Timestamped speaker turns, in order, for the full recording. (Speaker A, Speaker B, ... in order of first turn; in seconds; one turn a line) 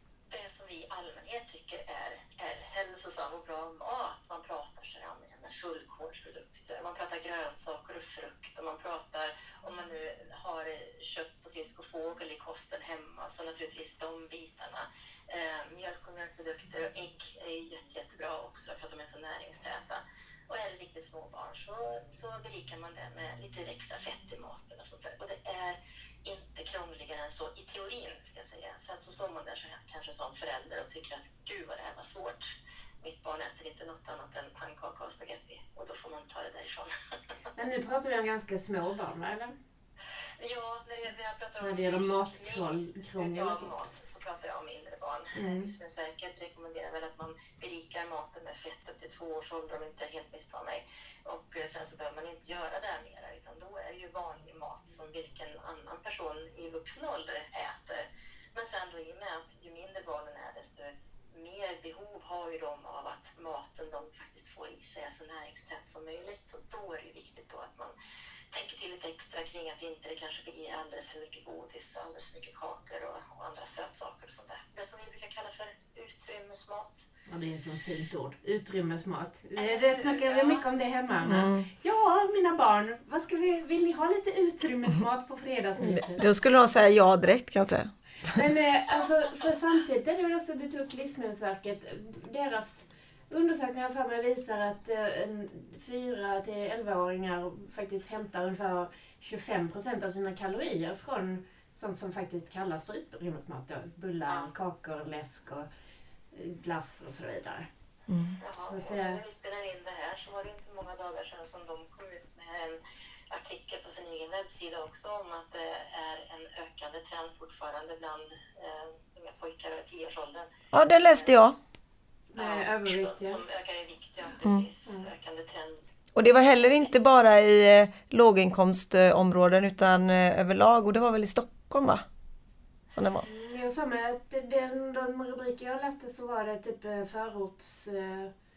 Speaker A: 0.3-36.9
Speaker B: 37.6-39.6
Speaker A: 40.4-67.9
Speaker B: 41.6-43.7
Speaker B: 45.4-45.7
Speaker A: 68.5-77.1
Speaker B: 77.3-86.2
Speaker A: 79.6-80.7
Speaker C: 81.2-81.7
Speaker C: 85.8-88.4
Speaker B: 88.3-105.7
Speaker B: 106.3-107.7
Speaker C: 108.1-108.4
Speaker A: 108.4-120.5
Speaker B: 108.5-109.2
Speaker C: 120.7-121.6
Speaker A: 121.0-121.3
Speaker B: 122.3-123.4
Speaker A: 122.4-125.8
Speaker C: 126.2-132.0
Speaker C: 132.9-133.3
Speaker B: 133.3-138.3